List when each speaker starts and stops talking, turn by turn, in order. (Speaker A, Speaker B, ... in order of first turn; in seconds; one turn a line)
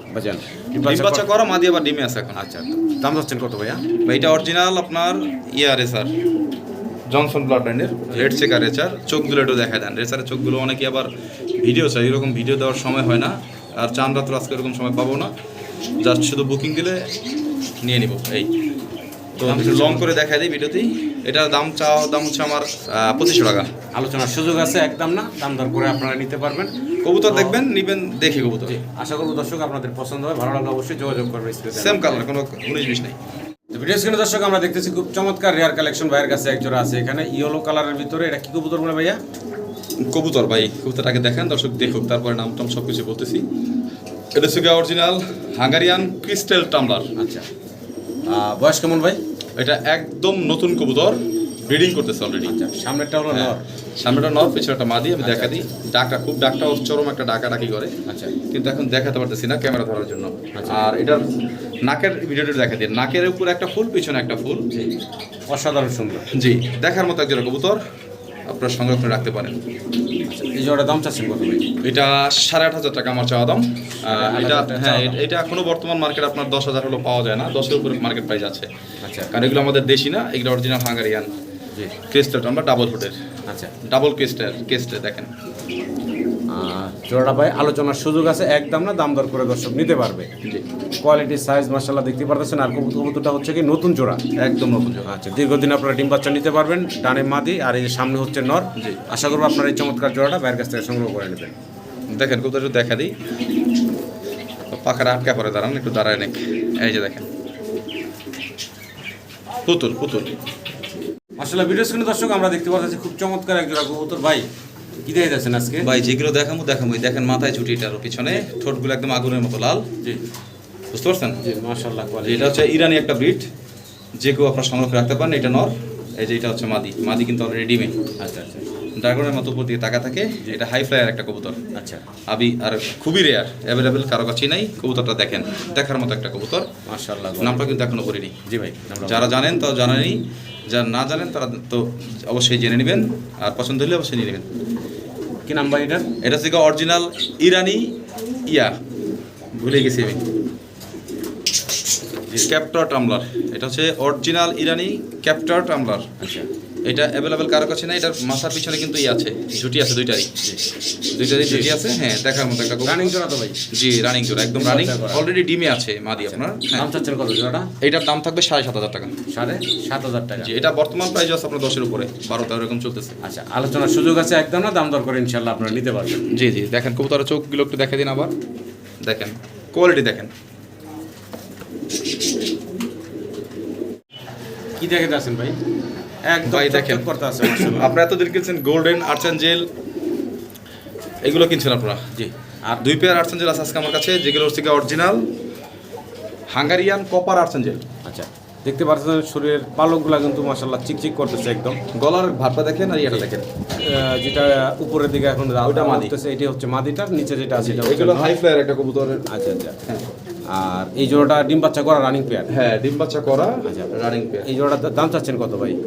Speaker A: 0.1-1.2
Speaker B: 0.8-2.4
Speaker A: 2.4-3.8
Speaker B: 4.0-6.1
Speaker B: 7.1-15.3
Speaker B: 16.0-17.1
Speaker B: 17.8-18.5
Speaker B: 19.4-23.7
Speaker A: 19.4-20.1
Speaker A: 23.9-26.7
Speaker B: 27.0-28.8
Speaker A: 27.3-27.6
Speaker A: 28.6-32.2
Speaker B: 31.7-33.2
Speaker A: 33.7-39.2
Speaker B: 40.0-43.4
Speaker B: 44.3-47.1
Speaker A: 47.1-47.5
Speaker A: 48.3-49.2
Speaker B: 49.6-52.5
Speaker A: 52.4-53.6
Speaker B: 53.3-57.9
Speaker A: 55.2-55.7
Speaker A: 58.1-58.3
Speaker B: 58.5-61.2
Speaker A: 60.5-60.8
Speaker B: 61.9-64.7
Speaker A: 65.5-66.2
Speaker B: 66.3-67.8
Speaker B: 68.5-69.6
Speaker A: 70.3-71.7
Speaker B: 71.8-78.7
Speaker A: 74.0-75.2
Speaker A: 79.0-79.3
Speaker B: 79.3-81.3
Speaker B: 82.1-83.2
Speaker B: 83.8-85.3
Speaker A: 86.5-90.3
Speaker A: 91.0-94.2
Speaker B: 94.4-95.1
Speaker A: 95.1-101.5
Speaker B: 98.8-99.0
Speaker B: 102.1-103.1
Speaker B: 104.7-107.2
Speaker B: 109.7-110.3
Speaker A: 111.4-114.5
Speaker A: 115.0-115.9
Speaker B: 115.8-119.9
Speaker B: 120.9-121.4
Speaker A: 121.4-122.6
Speaker B: 122.2-123.5
Speaker B: 124.2-128.0
Speaker A: 128.2-128.6
Speaker B: 129.0-131.6
Speaker A: 131.7-132.0
Speaker B: 132.3-136.7
Speaker A: 136.9-137.7
Speaker B: 137.4-138.3
Speaker A: 138.4-139.3
Speaker B: 139.0-144.5
Speaker A: 145.4-146.1
Speaker B: 146.2-147.9
Speaker B: 148.5-148.7
Speaker B: 149.6-150.2
Speaker B: 152.4-156.1
Speaker A: 156.2-156.5
Speaker B: 156.8-160.3
Speaker B: 161.1-163.1
Speaker A: 161.3-161.7
Speaker A: 162.8-163.6
Speaker B: 163.7-166.9
Speaker A: 164.6-165.2
Speaker A: 166.2-167.7
Speaker B: 167.8-169.1
Speaker A: 169.3-170.5
Speaker B: 170.4-173.2
Speaker A: 173.2-176.2
Speaker B: 176.3-178.3
Speaker B: 179.0-180.3
Speaker A: 184.8-185.6
Speaker A: 186.3-187.9
Speaker B: 186.4-189.6
Speaker B: 191.2-192.0
Speaker A: 192.1-192.8
Speaker B: 192.8-195.2
Speaker B: 196.5-197.8
Speaker A: 198.1-201.8
Speaker B: 201.9-203.5
Speaker A: 203.1-208.3
Speaker B: 205.6-206.1
Speaker B: 207.6-209.2
Speaker A: 209.3-209.8
Speaker A: 210.5-212.5
Speaker B: 212.5-214.5
Speaker A: 214.4-215.8